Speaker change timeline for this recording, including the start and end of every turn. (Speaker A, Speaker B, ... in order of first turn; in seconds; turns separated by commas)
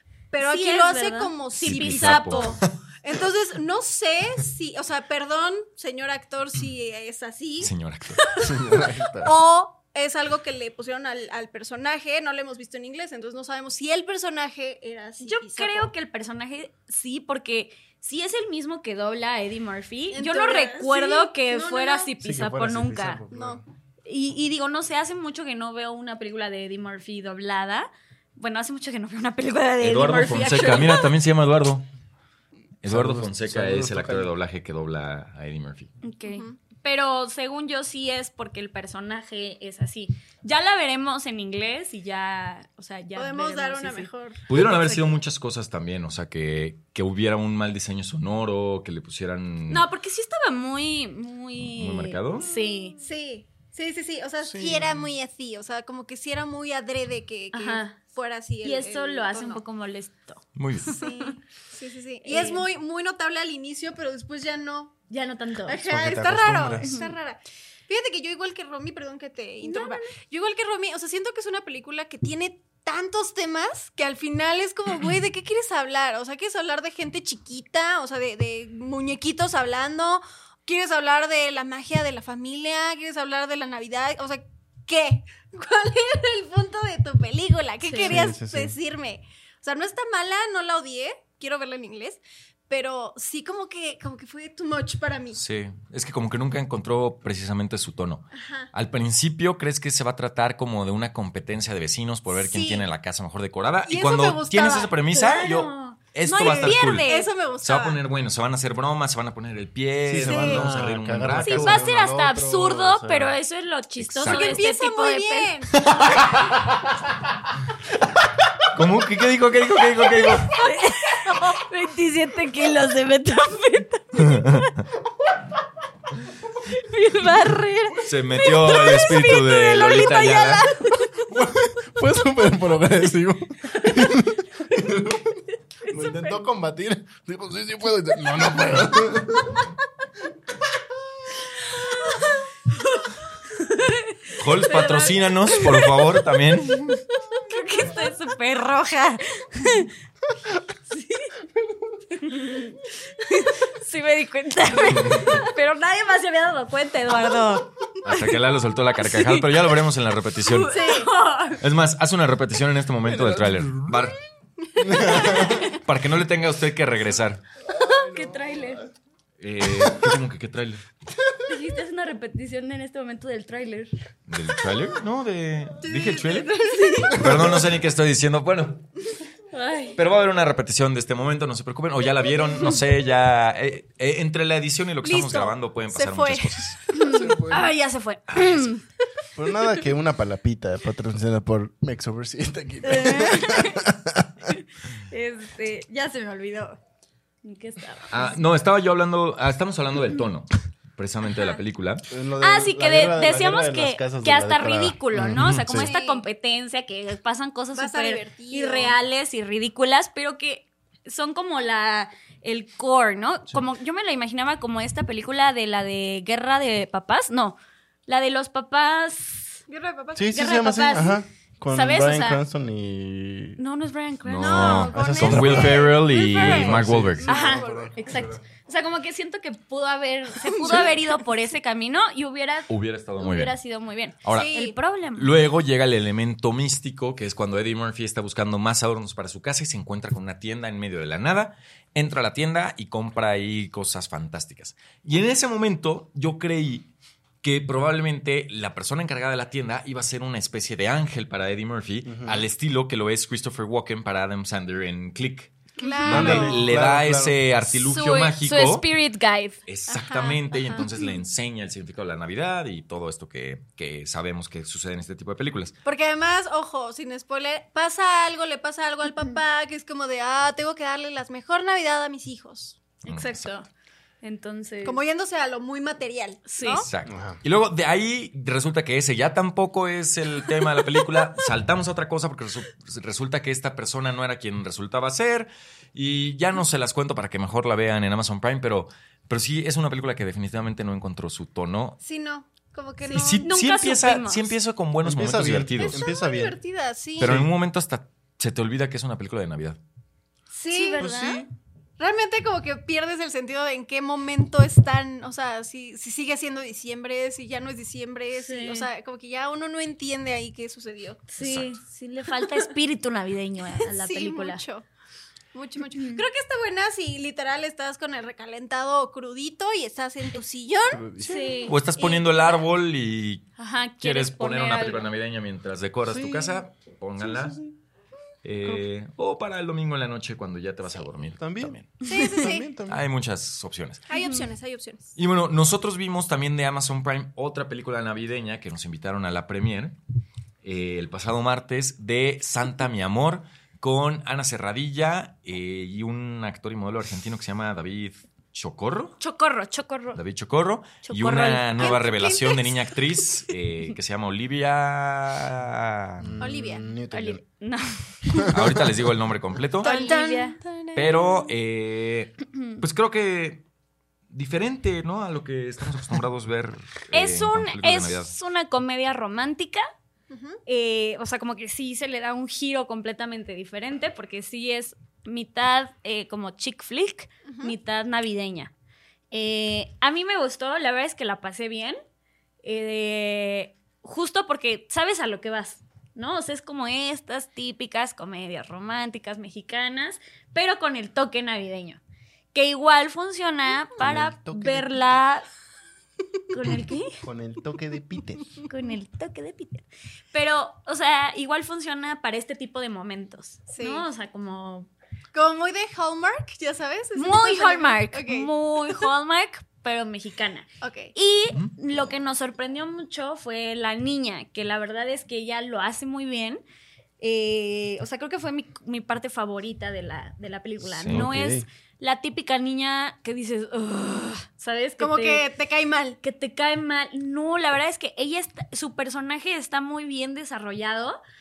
Speaker A: 0.3-15.9, Speaker B: 0.4-2.6, Speaker C: 1.6-2.6, Speaker C: 7.6-8.2, Speaker D: 8.4-9.3, Speaker B: 15.2-23.2, Speaker A: 20.1-22.1, Speaker D: 22.2-23.6, Speaker A: 23.3-23.6, Speaker B: 24.1-31.1, Speaker C: 29.8-31.9, Speaker C: 32.8-35.9, Speaker D: 32.9-34.3, Speaker B: 36.0-44.1, Speaker A: 36.2-36.6, Speaker A: 43.1-45.1, Speaker C: 44.5-49.9, Speaker B: 49.7-53.0, Speaker C: 51.6-52.5, Speaker A: 53.0-59.6, Speaker D: 54.4-55.0, Speaker B: 57.5-58.0, Speaker B: 58.6-61.4, Speaker C: 60.5-60.9, Speaker A: 60.8-65.0, Speaker B: 62.2-62.6, Speaker B: 65.1-65.8, Speaker A: 65.7-95.4, Speaker D: 65.8-67.0, Speaker B: 66.8-67.1, Speaker B: 69.6-70.1, Speaker B: 87.8-88.2, Speaker D: 87.9-88.8, Speaker C: 95.3-107.1, Speaker A: 98.3-98.7, Speaker A: 102.3-102.8, Speaker A: 103.9-105.0, Speaker B: 105.1-107.3, Speaker A: 106.3-108.0, Speaker C: 107.6-111.8, Speaker D: 110.0-113.3, Speaker A: 110.2-110.7, Speaker B: 111.4-115.5, Speaker C: 114.0-114.6, Speaker A: 114.2-115.8, Speaker D: 115.8-116.7, Speaker C: 118.7-120.6, Speaker B: 120.5-124.6, Speaker C: 124.2-124.7, Speaker B: 126.7-131.2, Speaker C: 128.0-130.7, Speaker D: 131.3-139.7, Speaker B: 143.5-145.9, Speaker C: 144.3-147.0, Speaker B: 147.4-149.9, Speaker B: 150.9-151.3, Speaker B: 152.2-152.8, Speaker B: 153.4-158.1, Speaker C: 155.1-155.4, Speaker C: 158.0-160.8, Speaker B: 159.0-159.5, Speaker B: 160.4-161.6, Speaker A: 160.7-161.1, Speaker C: 161.6-164.2, Speaker D: 163.1-164.0, Speaker D: 164.8-165.7, Speaker A: 164.9-165.6, Speaker C: 165.2-167.4, Speaker D: 167.7-168.9, Speaker B: 167.7-168.8, Speaker C: 169.4-170.8, Speaker D: 169.7-170.2, Speaker D: 171.2-171.4, Speaker B: 171.5-173.9, Speaker C: 174.3-176.5, Speaker A: 175.8-177.3, Speaker B: 176.6-177.3, Speaker C: 177.1-178.9, Speaker B: 179.5-180.0, Speaker C: 179.9-186.8, Speaker A: 185.0-187.2, Speaker B: 186.9-188.8, Speaker D: 187.1-187.7, Speaker D: 189.3-194.5, Speaker B: 192.8-193.9, Speaker B: 194.5-196.8, Speaker B: 197.4-198.3, Speaker C: 198.1-202.0, Speaker D: 202.1-205.9, Speaker B: 202.4-219.6, Speaker C: 205.3-205.9, Speaker A: 205.8-206.2, Speaker A: 207.7-208.9, Speaker A: 219.7-220.4, Speaker D: 220.2-223.6, Speaker B: 220.3-222.4, Speaker B: 223.6-224.9, Speaker C: 224.2-227.4, Speaker A: 224.4-228.0, Speaker D: 224.8-228.4, Speaker B: 227.2-235.3, Speaker A: 230.4-231.0, Speaker C: 232.7-233.6, Speaker C: 234.2-234.5, Speaker A: 234.3-234.7, Speaker C: 235.1-246.9, Speaker C: 247.4-255.5, Speaker D: 252.1-252.4, Speaker B: 255.8-256.4, Speaker A: 255.8-256.7, Speaker C: 256.0-258.8, Speaker D: 256.1-257.4, Speaker B: 257.8-259.6, Speaker C: 259.6-265.8, Speaker A: 259.9-260.8, Speaker A: 265.8-272.8, Speaker C: 273.0-273.5, Speaker B: 273.0-273.6, Speaker B: 274.2-275.0, Speaker A: 274.8-276.9, Speaker B: 276.5-276.8, Speaker C: 276.8-292.0, Speaker D: 277.1-277.4, Speaker A: 292.0-293.5, Speaker B: 293.1-294.5, Speaker C: 293.1-296.1, Speaker D: 295.0-296.6, Speaker A: 295.8-297.4, Speaker D: 297.2-297.5, Speaker C: 297.2-299.8, Speaker A: 300.5-301.4, Speaker B: 300.7-301.4, Speaker D: 301.0-301.3, Speaker A: 302.0-311.2, Speaker B: 308.4-308.9, Speaker B: 311.3-314.6, Speaker C: 311.4-311.7, Speaker A: 313.8-314.9, Speaker A: 315.5-321.1, Speaker B: 315.9-316.2, Speaker D: 320.9-321.6, Speaker B: 321.2-321.8, Speaker C: 321.6-323.5, Speaker A: 322.0-322.2, Speaker B: 323.6-325.1, Speaker C: 324.0-327.6, Speaker B: 326.2-326.6, Speaker C: 328.4-332.3, Speaker D: 331.4-331.8, Speaker A: 332.0-332.7, Speaker D: 332.4-333.0, Speaker C: 332.9-334.1, Speaker A: 334.1-335.1, Speaker B: 334.1-334.5, Speaker C: 335.1-340.0, Speaker C: 340.6-349.2, Speaker B: 349.2-350.2, Speaker C: 350.1-356.3, Speaker B: 351.0-352.0, Speaker A: 351.8-353.0, Speaker D: 356.2-357.4, Speaker A: 356.4-356.9, Speaker B: 357.1-358.5, Speaker D: 358.3-358.9, Speaker C: 358.5-359.9, Speaker A: 359.8-361.5, Speaker B: 359.8-360.6, Speaker C: 360.9-363.6, Speaker C: 364.3-368.3, Speaker B: 367.1-369.8, Speaker A: 370.3-370.6, Speaker B: 370.6-378.7, Speaker A: 377.4-377.7, Speaker B: 379.3-382.0, Speaker B: 382.6-392.0, Speaker B: 392.5-395.5, Speaker D: 394.0-394.9, Speaker B: 396.5-397.2, Speaker D: 397.2-398.6, Speaker B: 398.6-404.9, Speaker A: 403.7-404.1, Speaker A: 405.3-409.0, Speaker B: 407.1-416.6, Speaker A: 410.8-411.1, Speaker B: 417.2-425.4, Speaker C: 420.9-421.2, Speaker D: 421.1-421.6, Speaker A: 425.0-426.2, Speaker B: 426.2-431.2